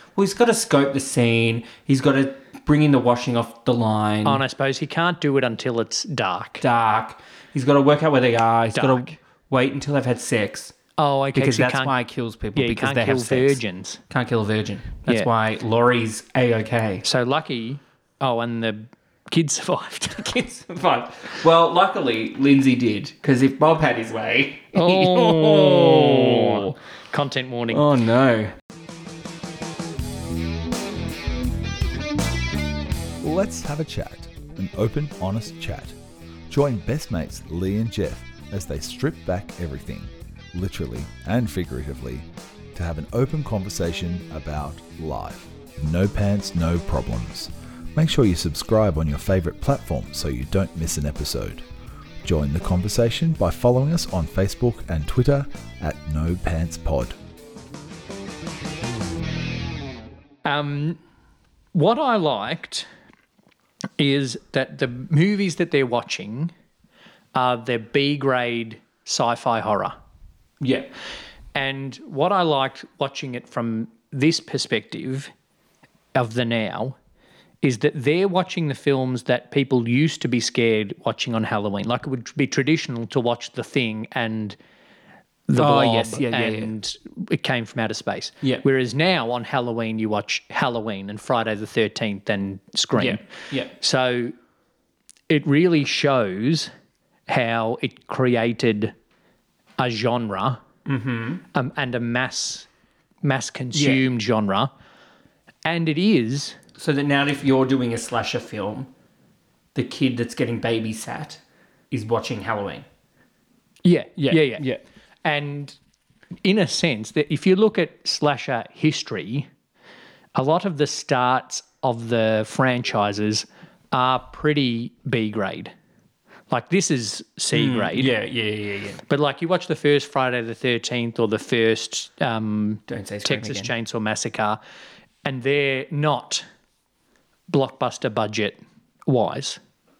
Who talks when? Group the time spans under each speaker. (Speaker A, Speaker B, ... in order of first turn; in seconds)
Speaker A: 0.2-4.4, 6.6-10.8, 11.3-17.1, 20.2-26.7, 27.7-28.6, 70.6-70.9, 85.6-86.7, 93.0-93.7, 100.9-101.4, 103.7-104.0, 106.8-108.9, 109.8-112.9, 114.2-114.8, 127.5-129.0, 132.9-133.7
Speaker B: 4.2-6.6, 8.7-9.2, 11.0-11.9, 12.6-14.0, 17.0-20.3, 24.7-27.9, 60.5-61.0, 61.7-62.9, 64.0-66.5, 67.3-70.0, 71.5-75.3, 76.2-77.0, 77.6-84.6, 85.5-94.3, 95.3-96.7, 97.3-98.9, 99.8-100.6, 101.5-102.7, 103.2-104.7, 105.7-106.6, 113.8-114.7, 115.2-115.8, 116.4-119.5, 120.3-125.7, 126.5-128.1, 129.1-134.6, 135.2-136.4, 137.5-139.6
Speaker C: 33.2-36.0, 36.5-51.6, 52.2-57.2